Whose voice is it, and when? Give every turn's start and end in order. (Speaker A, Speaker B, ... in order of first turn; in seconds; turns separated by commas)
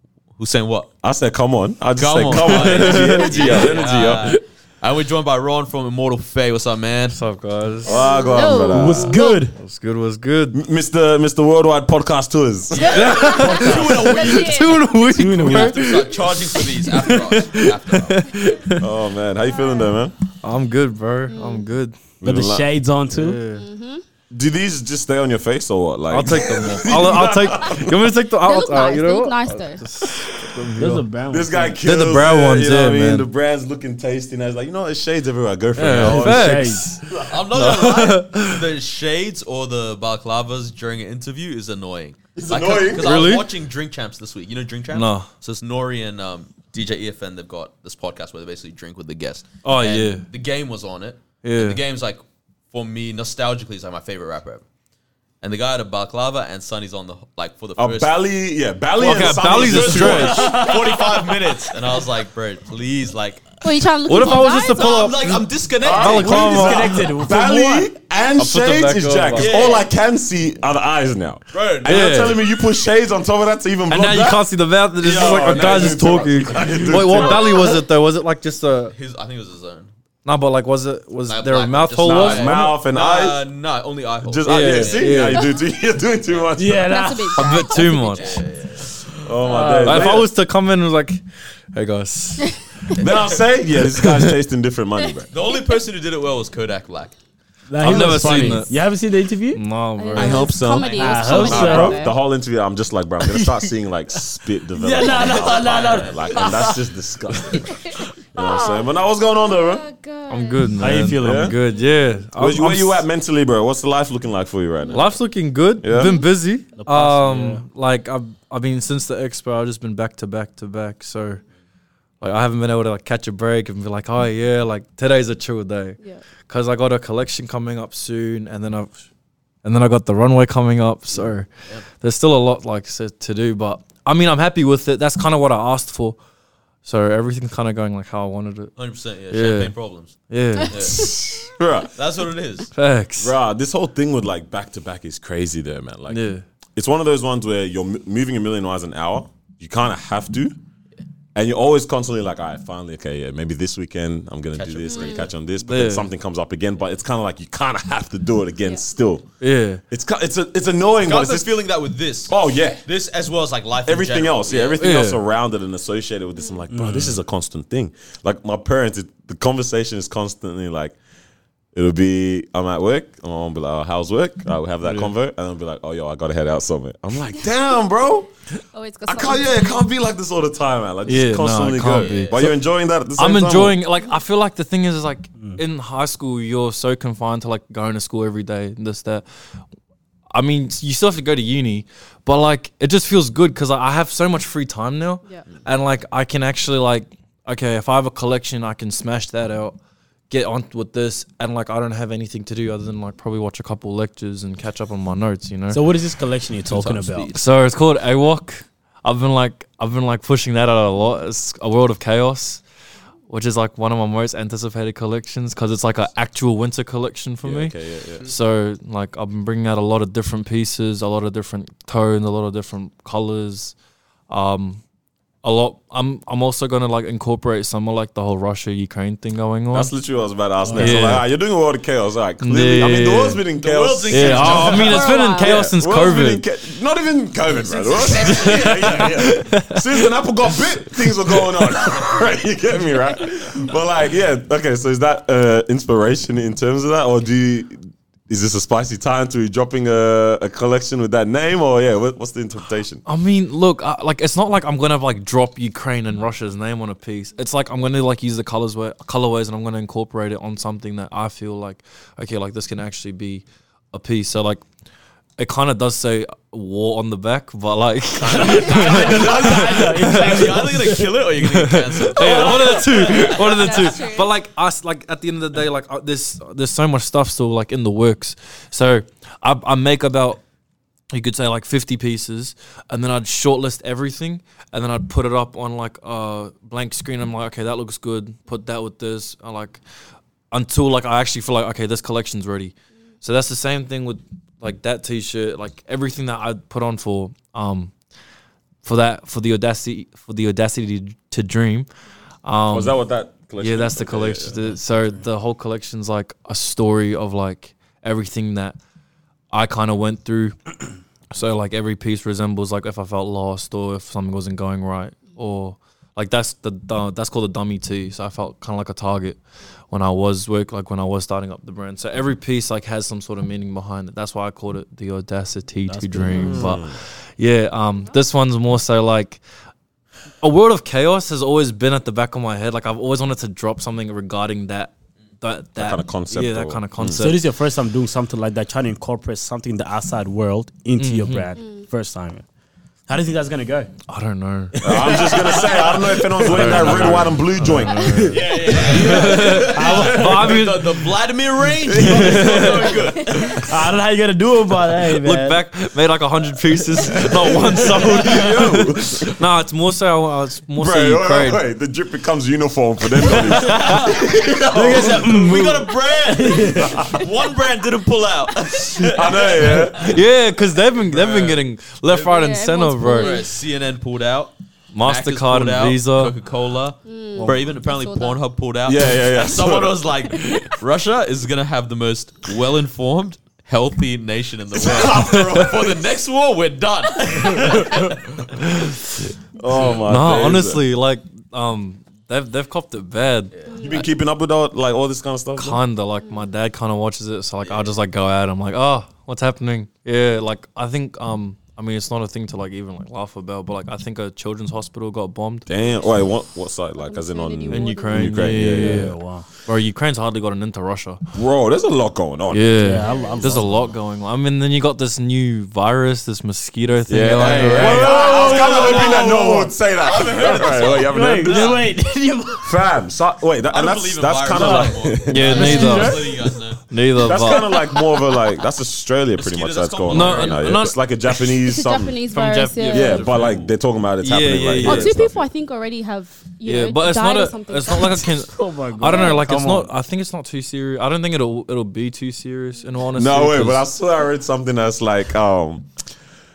Speaker A: 0.4-0.9, Speaker B: 1.0-4.3, Speaker A: 2.0-7.2, Speaker C: 2.5-3.5, Speaker C: 7.1-10.6, Speaker D: 7.8-9.4, Speaker B: 7.8-9.1, Speaker E: 8.6-9.6, Speaker B: 10.5-12.9, Speaker A: 12.7-18.3, Speaker D: 12.8-15.0, Speaker C: 12.9-18.9, Speaker E: 13.3-14.1, Speaker E: 15.2-15.8, Speaker B: 18.8-20.1, Speaker D: 19.5-20.0, Speaker C: 20.4-22.0, Speaker D: 21.3-21.6, Speaker B: 22.2-22.7, Speaker E: 22.2-23.4, Speaker C: 23.1-23.7, Speaker D: 23.5-24.0, Speaker B: 24.3-28.0, Speaker C: 26.1-31.1, Speaker D: 28.4-29.8, Speaker E: 30.8-31.8, Speaker B: 31.3-37.4, Speaker C: 31.8-33.3, Speaker C: 35.8-38.6, Speaker E: 36.0-36.9, Speaker A: 37.3-54.6, Speaker B: 42.4-43.2, Speaker C: 43.0-43.5, Speaker C: 44.9-45.3, Speaker C: 49.6-50.3, Speaker C: 51.4-51.8, Speaker A: 55.4-58.1, Speaker B: 57.8-60.6, Speaker C: 59.0-60.6, Speaker A: 59.4-63.6, Speaker E: 60.2-61.5, Speaker D: 63.6-65.0, Speaker C: 64.1-67.0, Speaker A: 64.2-66.6, Speaker B: 65.8-74.5, Speaker E: 66.1-67.9, Speaker C: 68.4-69.5, Speaker A: 69.3-69.9, Speaker A: 71.5-72.3, Speaker C: 71.9-72.4, Speaker C: 73.9-79.0, Speaker A: 75.0-77.6, Speaker B: 75.0-77.8, Speaker A: 78.9-79.9, Speaker C: 80.2-82.7, Speaker A: 81.3-85.2, Speaker B: 82.0-83.4, Speaker B: 84.2-87.0, Speaker C: 84.5-85.5, Speaker D: 85.3-85.6, Speaker E: 86.6-87.3, Speaker D: 86.9-88.4, Speaker C: 87.4-88.4, Speaker A: 88.1-88.9, Speaker B: 89.2-90.3, Speaker E: 89.4-90.2, Speaker C: 89.8-91.2, Speaker C: 91.7-92.6, Speaker A: 92.9-93.4, Speaker B: 93.0-95.3, Speaker C: 93.8-94.3, Speaker A: 95.3-97.2, Speaker E: 97.7-99.6, Speaker C: 97.8-98.8, Speaker C: 99.5-100.6, Speaker D: 100.0-102.2, Speaker B: 100.2-109.9, Speaker A: 100.6-101.7, Speaker E: 101.0-102.0, Speaker E: 103.3-103.5, Speaker E: 104.7-106.8, Speaker A: 105.1-106.7, Speaker D: 107.5-108.9, Speaker D: 109.4-110.8, Speaker C: 110.3-113.1, Speaker E: 110.8-111.6, Speaker B: 111.2-111.6, Speaker B: 112.3-115.2, Speaker C: 114.9-121.4, Speaker B: 115.8-116.2, Speaker D: 116.0-116.2, Speaker E: 116.8-117.6, Speaker C: 122.2-129.0, Speaker C: 129.6-136.2, Speaker C: 136.8-138.7, Speaker A: 138.8-141.2, Speaker C: 139.3-139.8, Speaker C: 140.3-140.9, Speaker D: 140.6-141.1, Speaker B: 140.8-141.9, Speaker A: 141.9-142.7, Speaker C: 142.7-143.4, Speaker B: 143.2-146.2, Speaker C: 146.1-146.4, Speaker B: 146.8-150.6, Speaker B: 151.3-159.2, Speaker A: 154.5-155.3, Speaker D: 154.9-155.3, Speaker C: 155.6-156.1, Speaker C: 159.4-159.8, Speaker B: 159.9-161.6, Speaker A: 161.0-164.8, Speaker B: 162.3-162.8, Speaker B: 163.9-171.0, Speaker C: 164.8-165.2, Speaker E: 166.7-167.2, Speaker B: 171.7-178.3, Speaker C: 174.8-175.1, Speaker D: 178.7-179.8, Speaker B: 179.1-183.8, Speaker C: 181.1-182.6, Speaker A: 181.8-182.5, Speaker C: 183.1-189.2, Speaker C: 190.3-199.8, Speaker C: 200.3-205.8, Speaker E: 205.7-207.3, Speaker A: 206.7-207.5, Speaker C: 207.3-212.6, Speaker C: 213.3-223.8, Speaker B: 217.4-218.3, Speaker C: 224.3-224.8, Speaker C: 225.4-229.9, Speaker B: 229.7-253.0, Speaker C: 230.7-231.3, Speaker C: 232.4-233.5, Speaker A: 233.5-235.1, Speaker C: 234.1-236.4, Speaker D: 234.8-235.6, Speaker A: 237.4-239.0, Speaker C: 238.2-239.8, Speaker C: 253.1-264.6, Speaker C: 265.4-280.4, Speaker B: 268.2-269.5, Speaker A: 268.3-274.0, Speaker E: 268.6-270.9, Speaker D: 273.0-274.3, Speaker C: 281.1-289.8, Speaker C: 290.5-297.9, Speaker C: 298.8-301.9, Speaker C: 302.4-303.0, Speaker B: 302.7-304.8, Speaker C: 303.6-308.8, Speaker C: 309.5-310.6, Speaker C: 311.3-319.4, Speaker C: 319.9-329.4, Speaker E: 325.9-326.8, Speaker B: 326.3-327.0, Speaker C: 330.4-337.4, Speaker B: 335.8-337.3, Speaker E: 337.2-342.4, Speaker C: 341.0-341.5, Speaker D: 341.6-341.9, Speaker E: 343.1-343.9, Speaker C: 344.1-345.2, Speaker E: 344.7-350.5, Speaker B: 344.8-348.2, Speaker A: 345.4-345.8, Speaker C: 346.4-351.1, Speaker A: 348.3-353.9, Speaker B: 351.8-352.7, Speaker C: 352.0-352.9, Speaker E: 353.6-355.6, Speaker C: 355.2-361.6, Speaker B: 357.1-359.3, Speaker B: 360.8-365.3, Speaker C: 363.4-364.0, Speaker A: 363.7-370.2, Speaker E: 364.6-367.0, Speaker B: 366.8-367.2, Speaker B: 369.0-370.1, Speaker C: 369.9-373.4, Speaker A: 371.1-372.2, Speaker D: 372.2-373.5, Speaker A: 373.0-388.5, Speaker C: 374.9-376.3, Speaker D: 377.1-378.4, Speaker B: 378.9-380.1, Speaker D: 380.3-380.8, Speaker B: 384.8-385.7, Speaker C: 385.1-385.6, Speaker C: 388.5-389.3, Speaker B: 389.6-390.8, Speaker A: 389.7-390.1, Speaker C: 390.0-393.5, Speaker D: 393.7-394.1, Speaker B: 393.8-395.8, Speaker C: 395.6-405.7, Speaker A: 397.6-398.0, Speaker B: 405.7-409.1, Speaker D: 407.0-408.8, Speaker C: 407.7-411.2, Speaker E: 408.6-409.5, Speaker B: 411.3-412.9, Speaker C: 412.5-418.1, Speaker E: 412.8-413.9, Speaker D: 413.0-413.6, Speaker B: 417.1-421.8, Speaker A: 417.4-419.4, Speaker E: 417.6-419.7, Speaker A: 420.0-421.9, Speaker E: 421.0-422.8, Speaker B: 422.6-425.7, Speaker A: 423.7-426.8, Speaker E: 424.5-426.6, Speaker C: 425.3-426.3, Speaker D: 425.6-426.1, Speaker C: 426.9-427.6, Speaker B: 427.2-432.2, Speaker A: 429.4-430.8, Speaker C: 430.1-431.0, Speaker D: 431.6-433.4, Speaker C: 432.3-435.2, Speaker B: 432.9-435.5, Speaker D: 434.8-438.4, Speaker C: 436.6-443.9, Speaker E: 438.5-439.9, Speaker D: 439.0-439.4, Speaker B: 443.1-445.9